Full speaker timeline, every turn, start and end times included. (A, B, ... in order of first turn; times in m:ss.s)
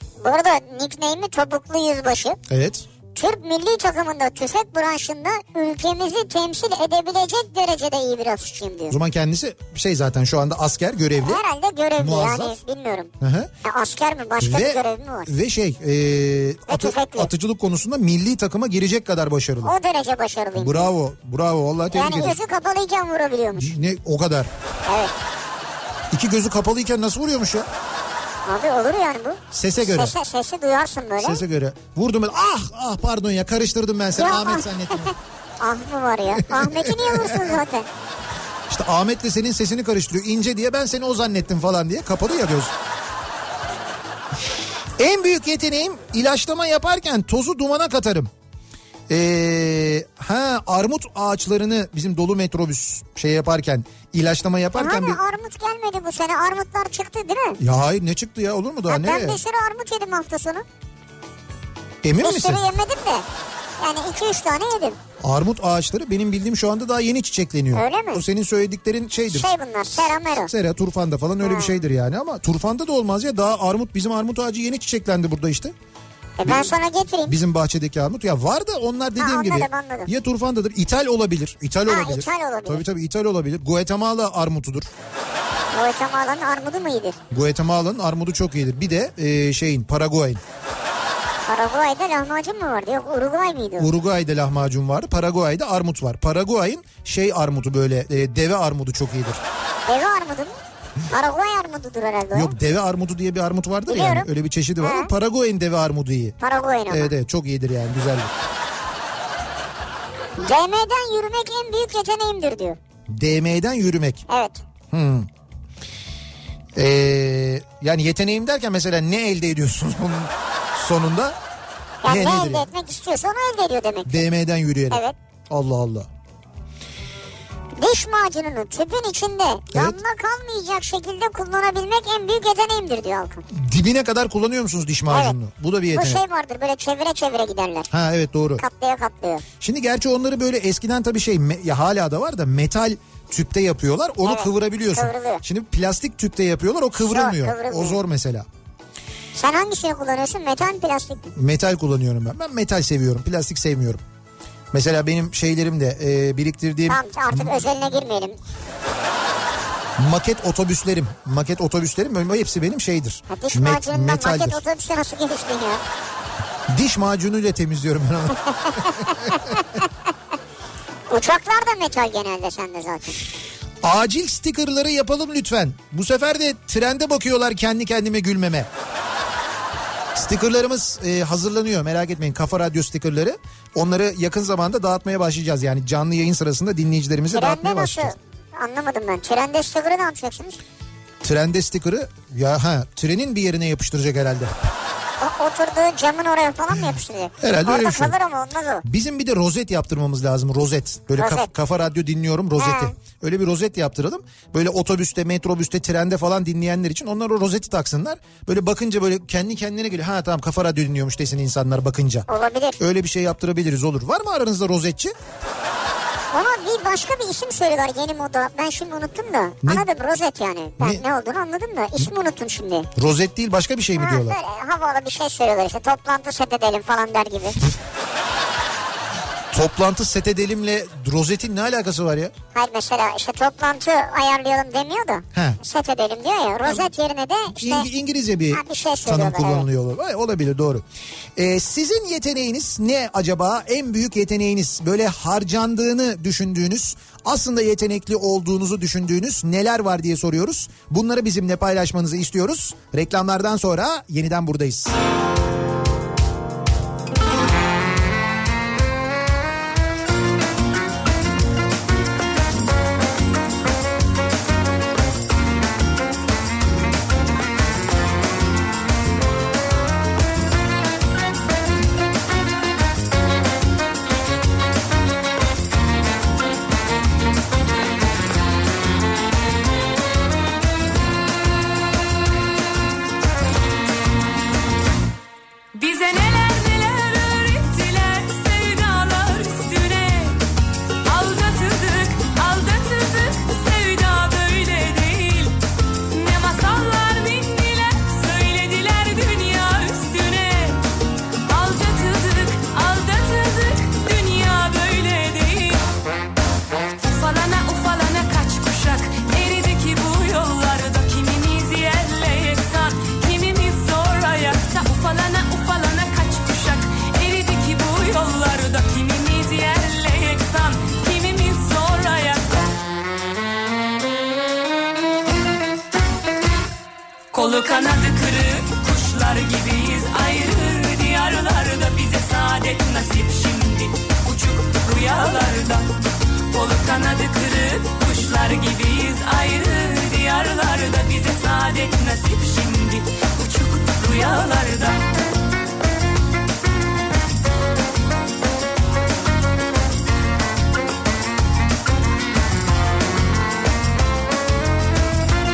0:00.2-0:02.4 A
0:02.5-0:02.9 B
0:03.1-0:09.0 A
0:08.9-0:11.4 B
0:11.2-0:13.1 A
0:12.0-0:12.6 B
0:13.2-0:13.5 B
0:13.6-0:15.3 A
0:14.4-0:19.7 B
0:16.7-0:17.3 A
0:19.6-0:20.9 A
0:20.6-0:22.4 B
0:21.9-0:23.8 A
0:23.6-0:24.5 B
0:24.9-0:25.1 A
0:26.1-0:27.7 B
0:28.5-0:31.4 A
0:29.5-0:30.2 B
0:31.2-0:35.1 B
0:34.2-0:37.9 A
0:36.4-0:37.6 B
0:38.7-0:42.8 B
0:45.0-0:48.3 B
0:49.1-0:55.2 B
0:54.8-0:57.6 A
0:57.6-0:59.4 B
0:58.9-1:00.6 A
1:02.0-1:02.6 B
1:02.2-1:03.3 A
1:03.8-1:05.0 A
1:05.2-1:15.7 B
1:07.7-1:08.2 A
1:09.3-1:10.5 A
1:11.4-1:11.7 A
1:16.4-1:17.4 A
1:16.4-1:16.7 B
1:17.3-1:24.9 B
1:19.2-1:20.1 A
1:21.9-1:22.8 A
1:25.7-1:27.2 A
1:27.3-1:30.4 B
1:31.5-1:33.9 A
1:33.8-1:39.4 B
1:39.9-1:40.6 A
1:41.1-1:42.5 A
1:42.3-1:46.4 B
1:43.9-1:44.3 A
1:44.8-1:45.1 A
1:46.4-1:47.1 A
1:46.9-1:48.3 B
1:50.4-1:52.8 A
1:53.1-1:54.3 B
1:54.3-1:54.6 A
1:54.9-1:55.3 B
1:56.8-2:01.4 B
2:02.0-2:04.2 A
2:02.0-2:02.7 B
2:04.1-2:06.1 B
2:07.8-2:13.4 A
2:13.5-2:16.2 B
2:15.9-2:17.9 A
2:17.9-2:18.6 B
2:18.6-2:19.4 A
2:19.6-2:28.5 B
2:24.2-2:25.4 A
2:27.0-2:28.0 A
2:29.4-2:31.3 A
2:31.4-2:34.0 B
2:34.7-2:37.6 B
2:36.9-2:38.4 A
2:40.0-2:44.6 B
2:43.3-2:45.8 A
2:46.7-2:49.6 B
2:48.6-2:49.6 A
2:51.1-2:53.2 A
2:53.8-2:58.7 B
3:00.1-3:08.1 B
3:07.4-3:10.6 A
3:11.2-3:14.6 B
3:15.2-3:18.8 A
3:17.4-3:18.2 B
3:18.8-3:32.3 B
3:21.2-3:21.5 A
3:22.6-3:22.9 A
3:32.3-3:32.8 A
3:32.8-3:35.1 B
3:36.3-3:42.9 A
3:43.0-3:44.4 B
3:44.0-3:47.6 A
3:49.5-3:52.3 B
3:52.5-3:57.9 A
3:55.3-3:55.6 B
3:57.6-4:00.8 B
3:58.5-3:59.7 A
4:01.4-4:15.0 B
4:45.7-4:50.4 C
4:51.0-4:55.6 C
4:56.1-5:00.8 C
5:01.4-5:05.9 C
5:07.0-5:22.6 C
5:27.3-5:45.1 C